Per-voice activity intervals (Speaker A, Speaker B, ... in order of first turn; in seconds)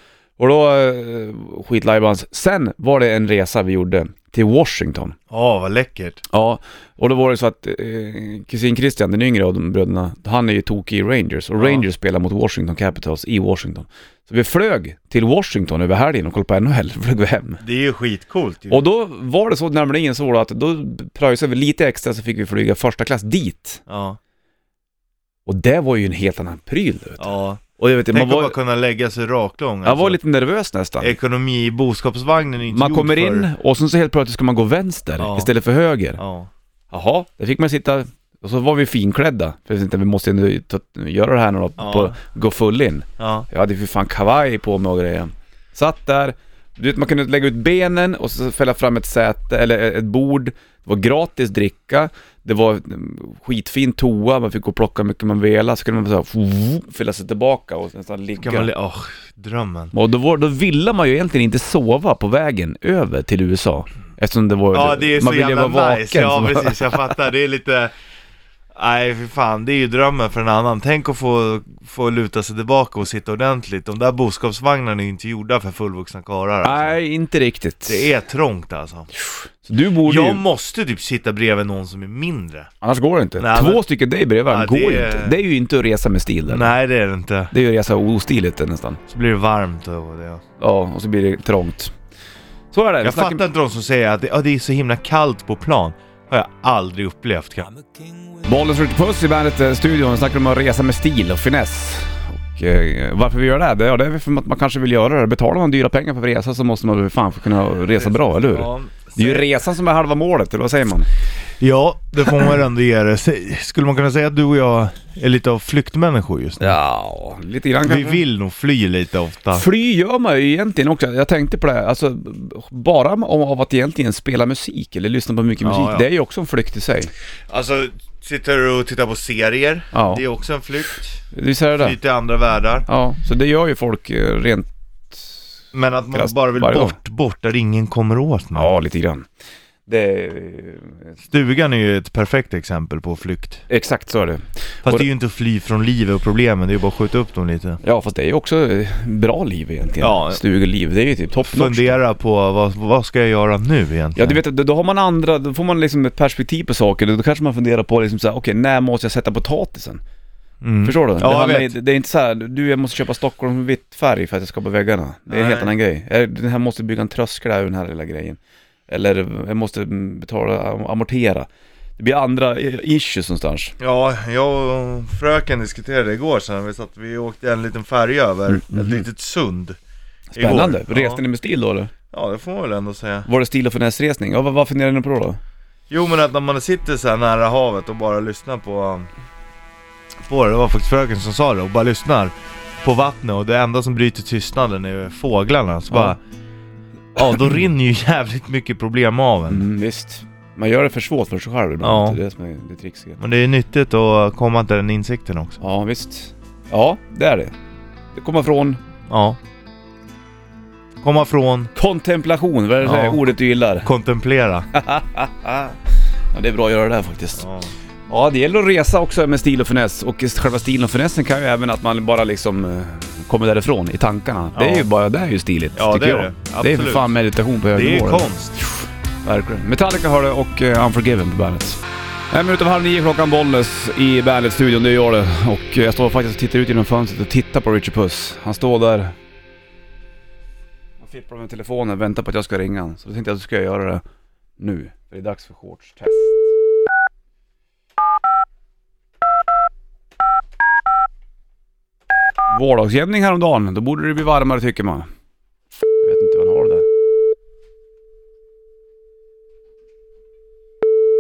Speaker A: 0.4-5.2, 6.3-17.6, 18.7-23.8, 25.5-28.6, 29.9-31.2, 32.7-36.2, 36.9-58.7, 59.9-67.0, 76.6-78.1, 79.2-80.4, 82.8-86.7, 87.5-89.0, 90.6-91.9, 92.7-93.4, 98.4-111.1, 116.6-118.2, 119.5-127.1, 129.9-130.2, 131.3-132.0, 132.9-135.4, 136.1-137.0, 138.6-139.3, 139.9-141.2, 143.7-145.1, 147.8-152.0, 154.2-160.0, 160.8-173.8, 178.5-179.0, 180.3-181.9, 183.3-185.4, 199.5-203.2, 205.6-207.5, 208.1-208.8, 211.8-213.9, 214.7-215.8, 216.3-217.5, 218.1-239.1, 241.0-244.0, 244.6-246.5, 252.5-255.1, 256.0-256.9
Speaker B: 5.3-6.2, 11.6-11.8, 17.6-18.9, 23.9-24.2, 27.2-30.2, 31.0-33.5, 35.2-35.5, 36.2-36.5, 41.8-42.2, 43.2-43.5, 58.4-59.9, 64.7-67.9, 68.7-77.0, 77.9-79.1, 80.0-82.7, 83.4-83.8, 84.5-85.4, 86.5-87.5, 89.1-90.4, 93.0-97.7, 108.0-109.5, 111.6-116.8, 117.8-119.7, 125.6-126.1, 127.5-131.2, 131.8-132.9, 135.7-138.7, 141.3-143.7, 144.8-147.8, 150.0-150.4, 151.5-154.4, 160.6-161.7, 165.3-165.7, 173.8-179.8, 180.3-181.2, 182.1-183.3, 185.9-189.1, 190.2-196.2, 197.2-199.6, 201.8-202.2, 203.2-205.6, 209.1-209.4, 211.0-211.7, 212.8-213.3, 213.8-214.7, 217.4-217.7, 224.5-224.9, 225.8-227.1, 227.7-228.6